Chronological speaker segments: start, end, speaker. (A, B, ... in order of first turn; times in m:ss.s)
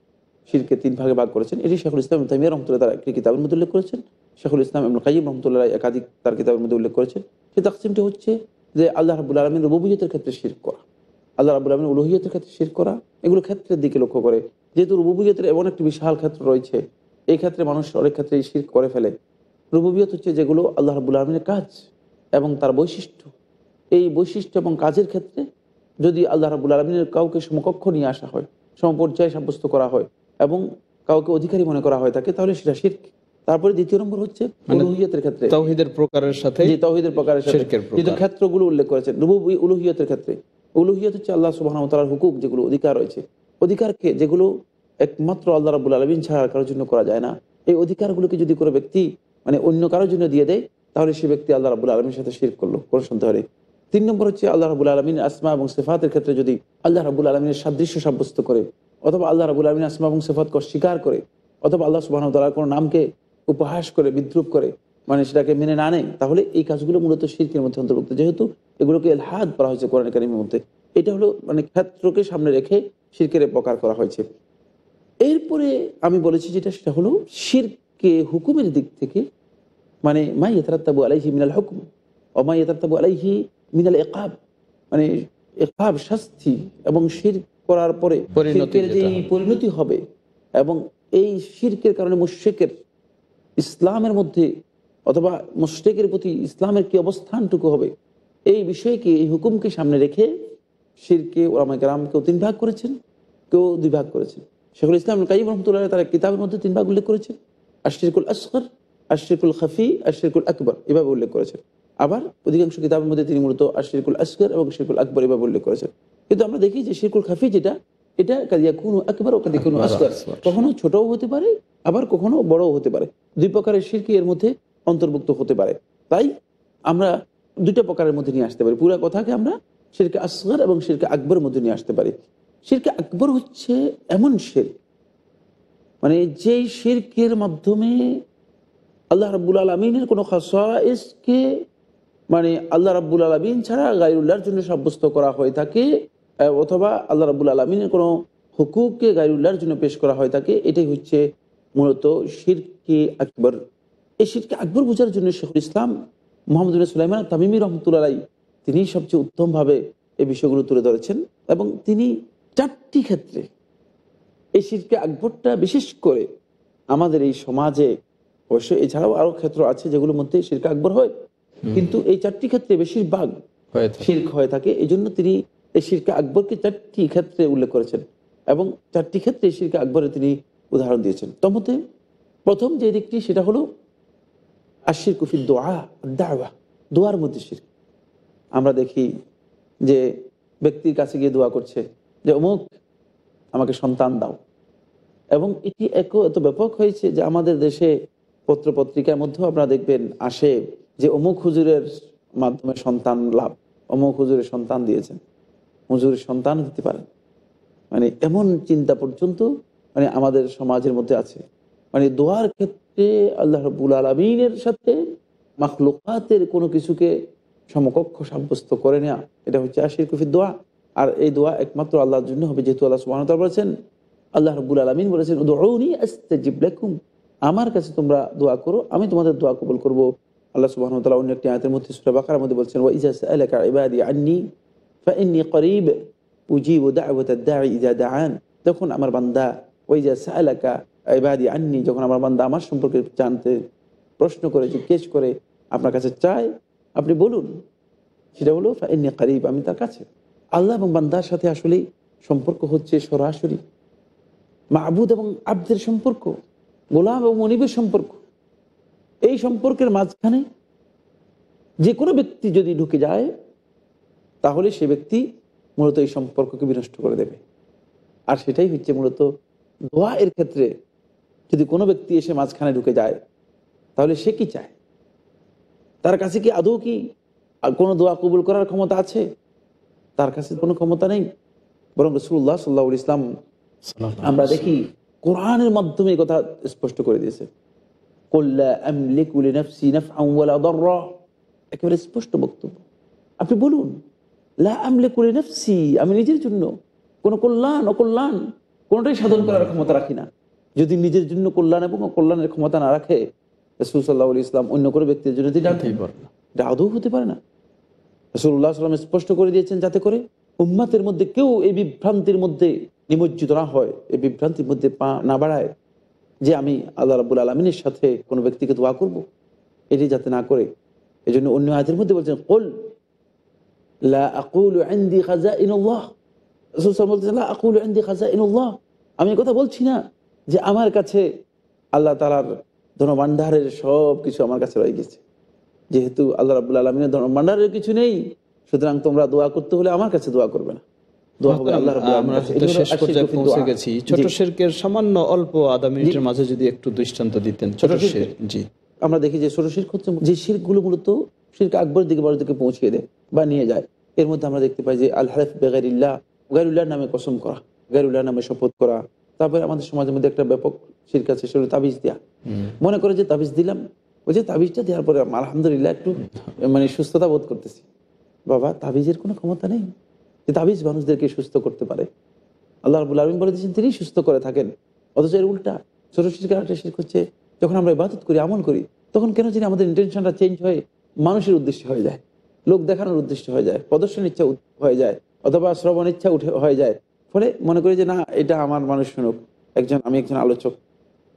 0:00.5-0:10.8 A
0:11.4-0:16.8 A
0:17.3-0:19.1 A
0:19.8-0:21.7 A
0:22.4-0:23.3 A
0:24.0-0:25.4 A
0:26.0-0:35.6 A
0:35.5-0:36.7 B
0:36.6-0:44.5 A
0:37.5-0:38.2 B
0:45.0-0:53.4 A
0:53.9-1:14.2 A
1:15.2-1:19.2 A
1:20.0-1:21.8 A
1:22.4-1:24.3 A
1:25.6-1:30.0 A
1:28.3-1:29.3 B
1:30.6-1:32.7 A
1:33.6-1:34.5 A
1:35.1-1:37.9 A
1:38.5-1:40.3 A
1:41.0-1:42.9 A
1:43.5-1:47.4 A
1:47.9-1:48.6 A
1:49.1-2:06.3 A
1:59.5-2:00.6 B
2:07.6-2:12.1 A
2:12.7-2:14.7 A
2:16.0-2:17.9 A
2:19.1-2:21.4 A
2:22.3-2:25.8 A
2:26.6-2:31.2 A
2:31.8-2:33.6 A
2:34.2-2:35.9 A
2:36.5-2:43.4 A
2:44.6-2:46.3 A
2:46.9-2:47.9 A
2:48.5-2:51.1 A
2:51.6-2:51.9 B
2:51.7-2:53.3 A
2:53.7-2:54.1 B
2:54.0-3:01.8 A
3:02.5-3:03.6 A
3:04.9-3:07.6 A
3:08.6-3:09.0 A
3:10.6-3:12.7 A
3:13.6-3:14.4 A
3:15.4-3:17.9 A
3:18.5-3:21.8 A
3:22.4-3:25.2 A
3:25.9-3:27.0 A
3:27.9-3:31.4 A
3:31.9-3:35.0 A
3:35.6-3:37.1 A
3:37.7-3:43.7 A
3:44.4-3:46.9 A
3:47.5-3:50.0 A
3:50.6-3:54.4 A
3:55.1-3:55.9 A
3:56.5-4:03.5 A
4:04.2-4:06.5 A
4:07.0-4:07.5 A
4:08.4-4:10.0 A
4:10.6-4:13.6 A
4:14.8-4:16.3 A
4:17.0-4:18.2 A
4:19.3-4:20.4 A
4:21.8-4:23.3 A
4:24.4-4:25.2 A
4:25.8-4:27.4 A
4:28.3-4:29.2 A
4:29.9-4:30.7 A
4:31.5-4:33.2 A
4:34.0-4:34.7 A
4:36.0-4:37.0 A
4:37.8-4:39.2 A
4:40.2-4:41.2 A
4:42.0-4:43.2 A
4:43.8-4:44.8 B
4:44.2-4:47.5 A
4:48.3-4:51.1 A
4:51.8-4:52.8 A
4:53.4-4:53.9 A
4:54.6-4:56.7 A
4:57.2-4:58.4 A
4:58.9-5:00.3 A
4:59.3-4:59.8 B
5:00.8-5:03.2 A
5:03.8-5:06.0 A
5:05.7-5:06.3 B
5:06.6-5:07.4 A
5:08.4-5:15.7 A
5:16.5-5:19.2 A
5:19.9-5:20.7 A
5:21.3-5:22.7 A
5:24.1-5:26.0 A
5:26.8-5:30.0 A
5:30.5-5:31.2 A
5:32.0-5:32.5 A
5:33.0-5:35.2 A
5:35.9-5:38.2 A
5:38.7-5:40.8 A
5:41.4-5:44.3 A
5:41.5-5:48.6 B
5:47.8-5:48.3 A
5:49.1-6:02.2 A
6:02.5-6:02.7 B
6:02.8-6:07.8 A
6:08.5-6:09.9 A
6:10.5-6:12.1 A
6:12.9-6:30.7 A